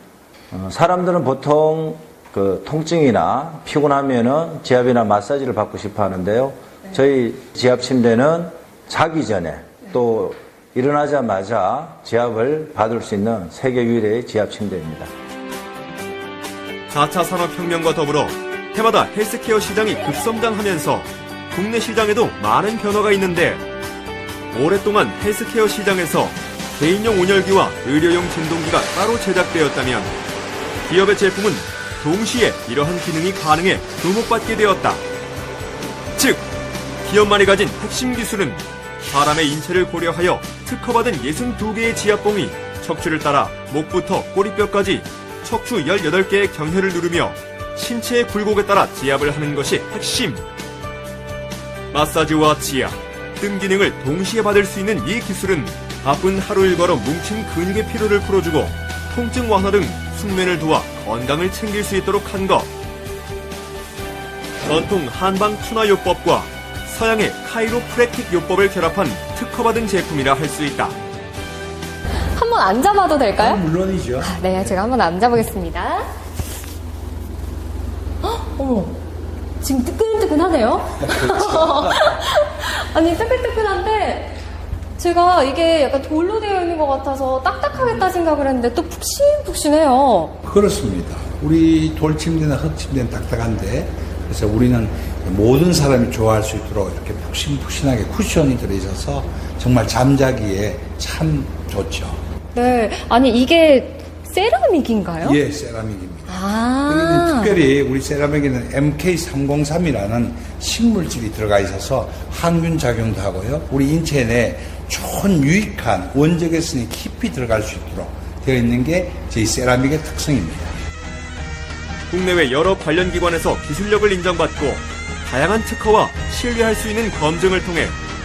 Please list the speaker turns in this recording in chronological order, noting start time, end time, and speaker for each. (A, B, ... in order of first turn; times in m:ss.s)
0:00.5-0:15.1 A
0:16.9-0:23.6 B
0:24.5-0:30.1 B
0:30.8-0:35.0 B
0:36.2-0:36.4 B
0:37.0-0:50.4 B
0:51.9-1:02.7 B
1:04.6-1:11.0 B
1:12.4-1:13.6 C
1:13.4-1:14.8 D
1:14.2-1:16.0 C
1:18.2-1:19.0 C
1:19.6-1:24.3 C
1:21.0-1:22.0 D
1:25.0-1:30.3 C
1:30.4-1:42.2 D
1:42.5-1:45.4 C
1:45.2-2:00.7 D
1:46.3-1:47.6 C
2:02.1-2:07.9 B